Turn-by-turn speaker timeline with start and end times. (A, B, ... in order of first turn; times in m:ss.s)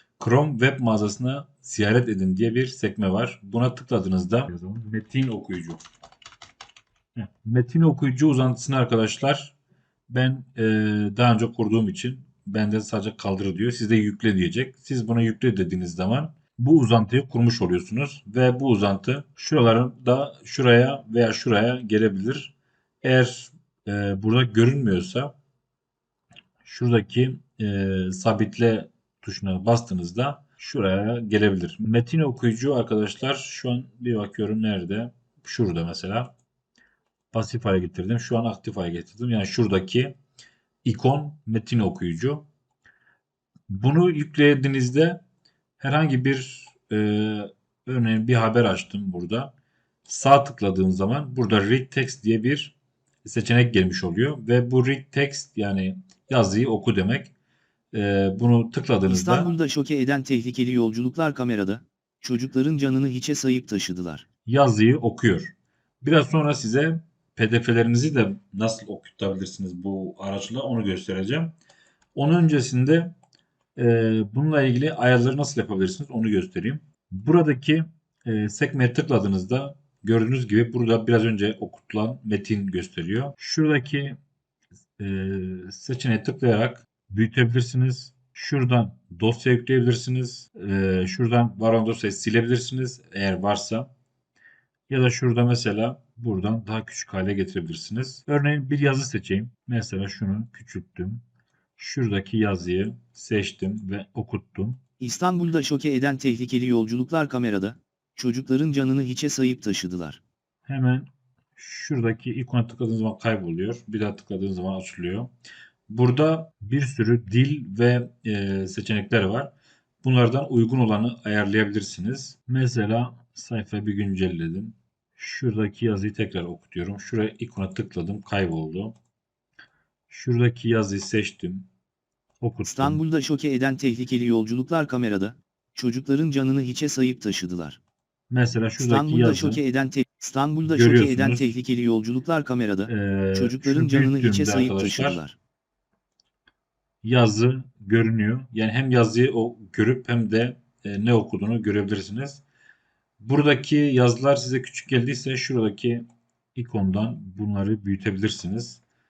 0:00.2-0:05.8 A
0:07.2-0:09.6 A
0:10.1-0:25.3 A
0:26.6-0:36.3 A
0:37.3-0:40.1 A
0:40.8-0:42.4 A
0:43.7-0:45.2 A
0:45.8-0:49.5 A
0:50.1-0:57.3 A
0:57.9-0:59.5 A
0:59.0-1:04.2 B
1:04.5-1:11.5 A
1:12.2-1:13.1 A
1:13.8-1:24.2 A
1:25.0-1:33.9 A
1:34.9-1:41.2 A
1:41.8-1:44.8 A
1:45.0-1:50.2 B
1:50.7-1:55.3 A
1:55.9-1:59.5 A
2:00.0-2:09.0 A
2:10.1-2:11.7 A
2:12.4-2:13.0 A
2:12.6-2:17.8 B
2:18.3-2:19.6 A
2:18.8-2:25.4 B
2:20.6-2:21.5 A
2:22.9-2:25.2 A
2:27.0-2:32.4 A
2:33.2-2:36.0 A
2:36.6-2:38.8 A